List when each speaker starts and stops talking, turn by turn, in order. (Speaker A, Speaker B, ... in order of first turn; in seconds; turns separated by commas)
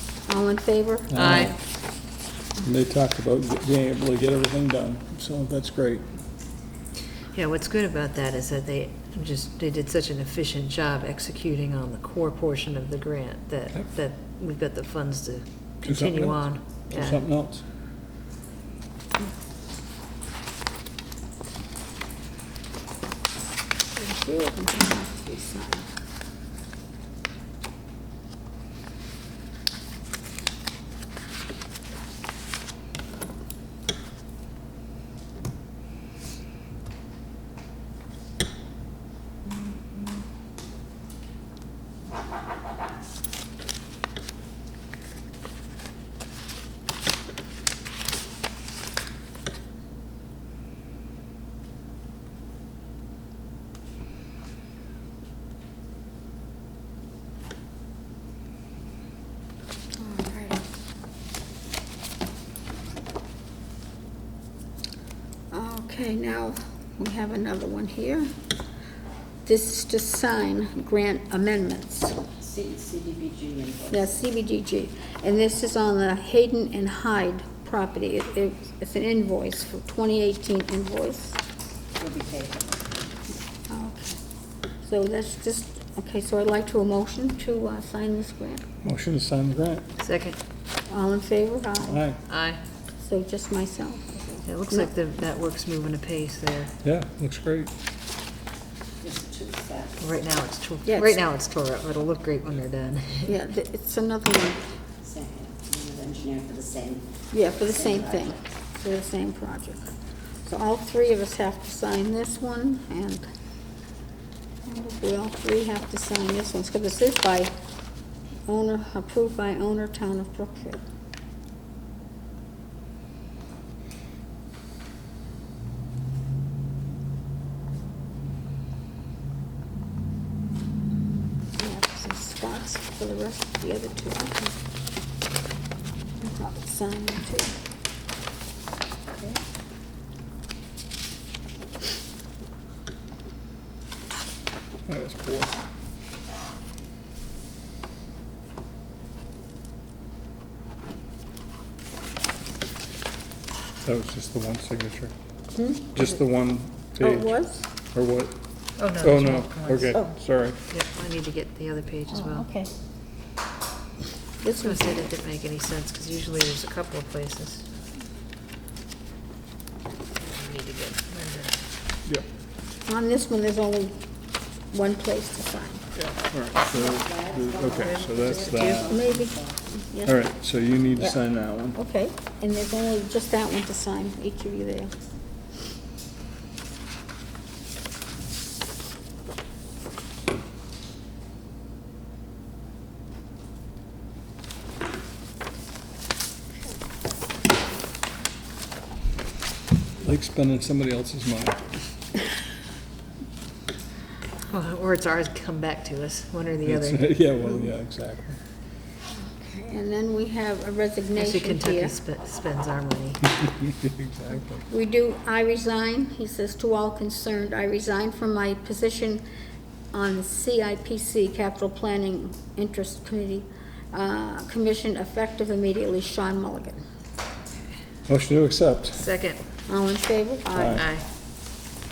Speaker A: 0.3-1.2, Speaker B: 1.1-1.6, Speaker C: 1.1-1.5, Speaker B: 2.6-6.1, Speaker C: 7.3-17.2, Speaker B: 15.8-17.6, Speaker A: 23.9-25.9, Speaker A: 60.0-60.6, Speaker A: 65.5-68.3, Speaker A: 69.5-72.2, Speaker D: 72.4-74.1, Speaker A: 73.9-81.4, Speaker D: 82.0-82.9, Speaker A: 83.7-84.2, Speaker A: 84.8-88.6, Speaker B: 88.8-89.8, Speaker C: 90.0-90.4, Speaker A: 90.9-92.0, Speaker B: 91.8-92.2, Speaker C: 92.3-92.6, Speaker A: 93.0-94.9, Speaker C: 94.5-96.7, Speaker B: 96.8-97.7, Speaker D: 99.0-100.1, Speaker C: 100.0-103.3, Speaker A: 100.9-101.2, Speaker A: 103.3-104.6, Speaker D: 105.0-107.1, Speaker A: 107.3-109.8, Speaker D: 107.8-108.2, Speaker A: 110.4-113.3, Speaker A: 114.7-117.5, Speaker A: 118.5-120.8, Speaker A: 131.6-134.6, Speaker A: 136.2-137.6, Speaker B: 144.9-145.6, Speaker B: 153.8-155.1, Speaker A: 155.6-155.9, Speaker B: 155.9-157.4, Speaker A: 157.0-157.7, Speaker B: 157.9-158.3, Speaker C: 158.8-160.0, Speaker B: 159.0-160.6, Speaker C: 160.7-162.5, Speaker A: 162.1-162.7, Speaker A: 164.4-165.1, Speaker C: 164.6-167.6, Speaker C: 170.2-171.6, Speaker A: 172.9-173.9, Speaker A: 174.7-175.8, Speaker B: 176.0-178.9, Speaker D: 176.6-179.6, Speaker C: 177.9-178.9, Speaker A: 178.9-180.3, Speaker B: 180.1-181.8, Speaker A: 181.8-184.9, Speaker B: 200.0-201.7, Speaker C: 204.5-207.1, Speaker B: 206.7-208.4, Speaker A: 209.1-212.0, Speaker C: 211.2-213.3, Speaker B: 213.6-214.6, Speaker A: 214.7-219.2, Speaker A: 219.9-226.8, Speaker B: 228.1-229.1, Speaker C: 228.9-229.4, Speaker A: 229.7-230.8, Speaker B: 230.5-230.8, Speaker C: 230.8-231.1